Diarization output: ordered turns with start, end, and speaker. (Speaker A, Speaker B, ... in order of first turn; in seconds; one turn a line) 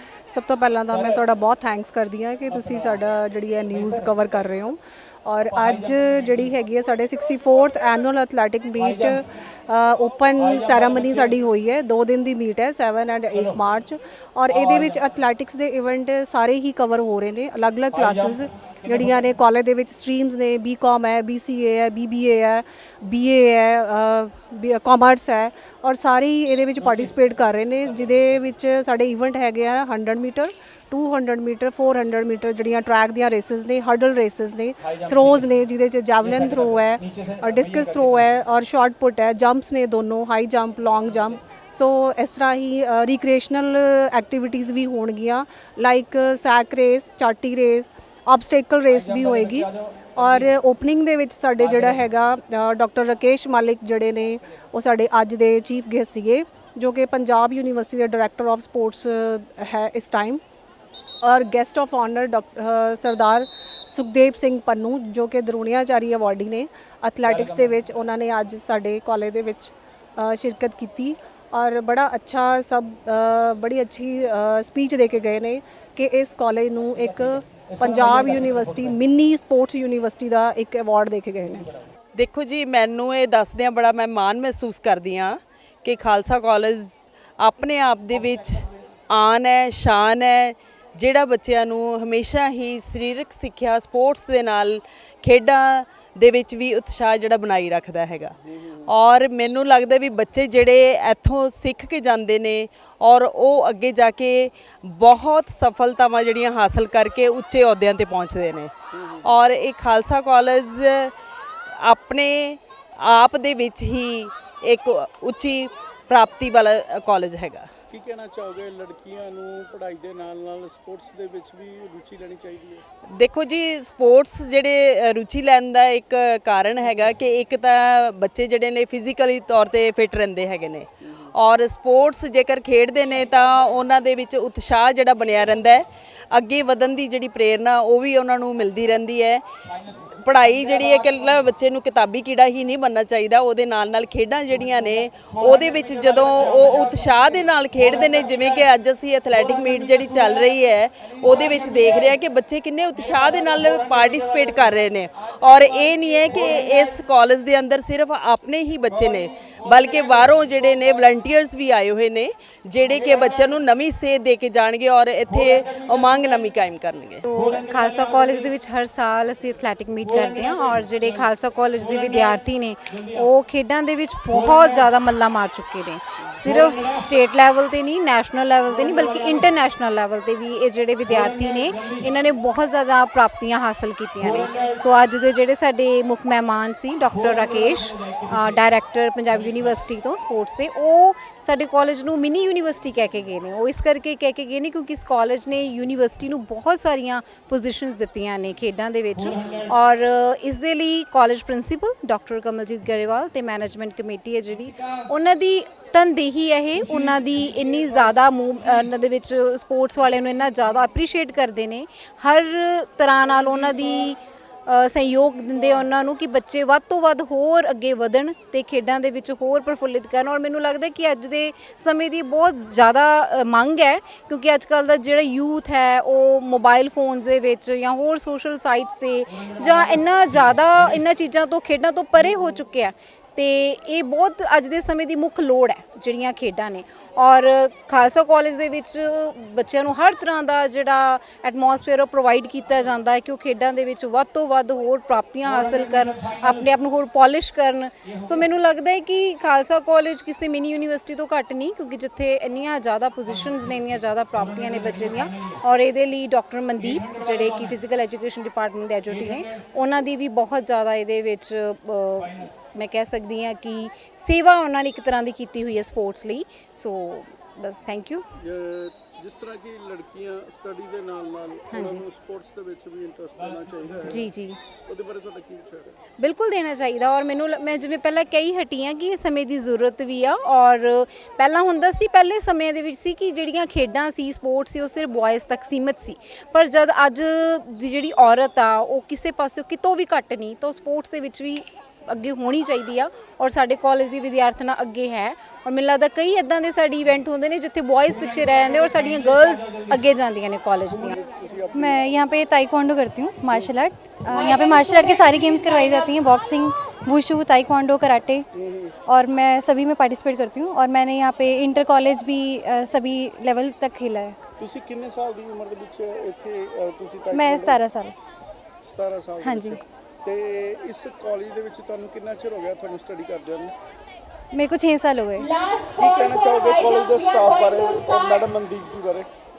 Speaker A: 0.3-60.4
Speaker A: 61.2-81.7
Speaker B: 82.2-98.3
Speaker C: 98.5-98.9
Speaker B: 98.9-108.7
Speaker C: 108.9-109.4
Speaker B: 109.2-111.1
Speaker B: 111.8-117.7
Speaker C: 117.9-122.8
Speaker B: 123.1-167.2
Speaker C: 131.0-131.3
Speaker D: 167.2-268.2
Speaker C: 268.4-274.3
Speaker D: 271.7-272.0
Speaker D: 274.0-274.6
Speaker C: 274.9-276.0
Speaker D: 276.2-301.2
Speaker C: 301.2-302.0
Speaker E: 301.7-308.5
Speaker C: 308.5-308.9
Speaker E: 309.1-314.4
Speaker C: 314.6-317.8
Speaker E: 317.3-318.1
Speaker C: 318.8-323.7
Speaker E: 319.4-319.8
Speaker E: 324.5-325.5
Speaker C: 325.9-329.3